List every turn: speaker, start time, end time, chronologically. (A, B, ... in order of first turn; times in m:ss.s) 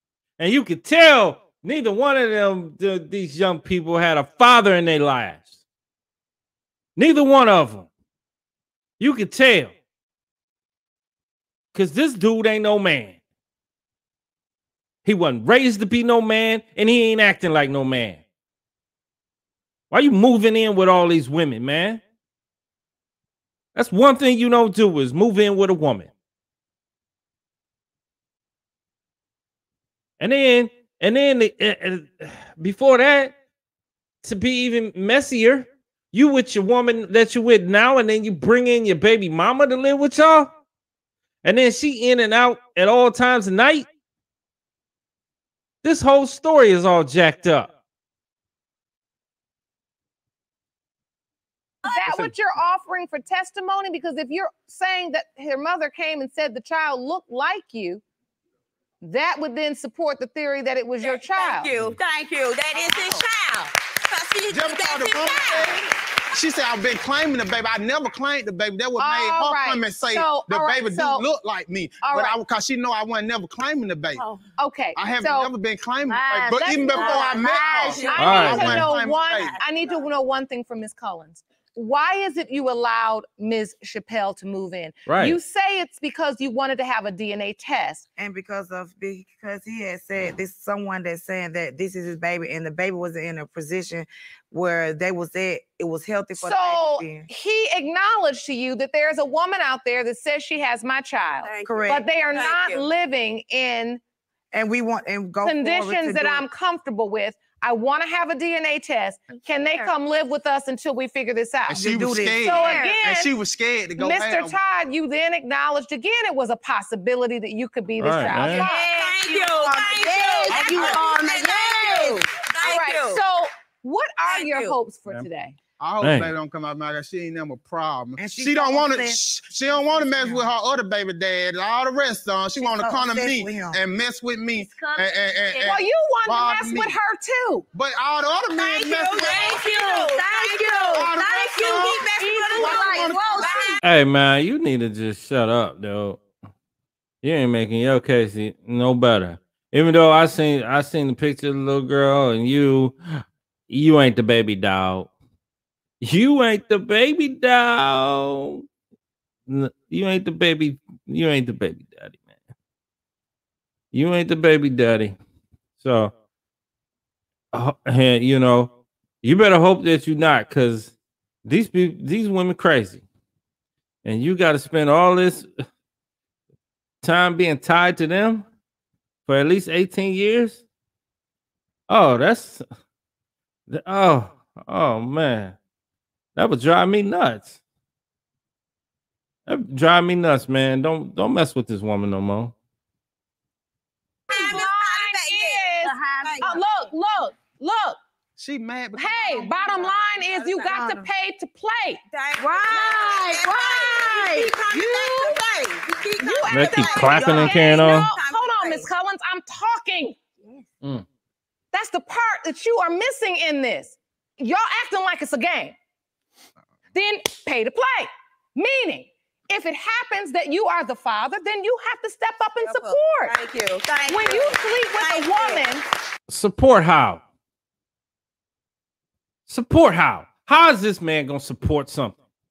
0:00.4-0:05.5 A
0:07.0-0:07.9 A
0:09.0-0:09.7 A
0:11.7-0:13.2 A
0:15.0-0:18.2 A
0:19.9-0:22.0 A
0:23.8-0:26.1 A
0:30.2-0:33.3 A
0:34.2-0:40.5 A
0:41.4-0:43.9 A
0:45.8-0:47.7 A
0:51.8-0:52.1 B
0:51.8-0:58.0 C
0:52.1-0:52.3 D
0:59.0-1:01.7 C
1:01.0-1:05.9 B
1:04.5-1:05.8 D
1:06.4-1:14.3 D
1:09.0-1:11.2 C
1:12.0-1:12.4 C
1:14.1-1:14.4 E
1:14.6-1:15.5 C
1:15.0-1:19.6 D
1:16.0-1:17.9 E
1:16.6-1:28.0 C
1:17.8-1:20.0 B
1:18.2-1:18.9 A
1:25.1-1:25.4 A
1:28.2-1:37.3 F
1:36.4-1:44.0 C
1:41.4-1:42.9 B
1:41.6-1:42.0 F
1:44.5-1:46.4 F
1:45.4-1:53.3 C
1:49.4-1:49.9 E
1:51.7-1:54.6 D
1:51.7-1:52.5 F
1:52.6-1:53.0 E
1:54.0-1:58.9 C
1:58.0-1:58.7 A
1:58.4-2:03.2 B
1:58.7-2:02.2 E
2:00.5-2:01.0 D
2:02.6-2:05.6 C
2:04.2-2:04.8 B
2:05.8-2:17.0 D
2:06.0-2:06.3 A
2:08.2-2:10.5 F
2:12.6-2:13.8 F
2:14.5-2:15.7 E
2:15.6-2:17.7 C
2:17.7-2:19.5 D
2:18.5-2:23.8 B
2:19.2-2:21.5 E
2:20.9-2:23.5 D
2:22.1-2:23.8 E
2:23.2-2:23.7 C
2:23.8-2:26.2 A
2:27.2-2:35.1 A
2:36.0-2:38.7 A
2:39.5-2:42.2 A
2:43.9-2:45.2 A
2:45.8-2:46.1 A
2:47.5-2:50.9 A
2:51.4-2:53.0 A
2:54.0-2:55.5 A
2:57.0-2:58.4 A
2:59.3-3:00.6 A
3:01.9-3:02.6 A
3:03.7-3:05.6 A
3:06.4-3:07.5 A
3:09.5-3:12.5 A
3:14.3-3:16.9 B
3:14.3-3:18.0 C
3:15.8-3:16.4 E
3:18.4-3:19.8 D
3:19.0-3:25.5 C
3:19.5-3:20.8 B
3:20.7-3:21.1 F
3:22.1-3:28.9 B
3:26.2-3:30.2 C
3:26.5-3:28.1 A
3:31.7-3:35.8 C
3:36.9-3:43.4 C
3:42.6-3:45.7 B
3:44.1-3:45.8 C
3:46.3-3:47.2 A
3:49.5-3:52.2 A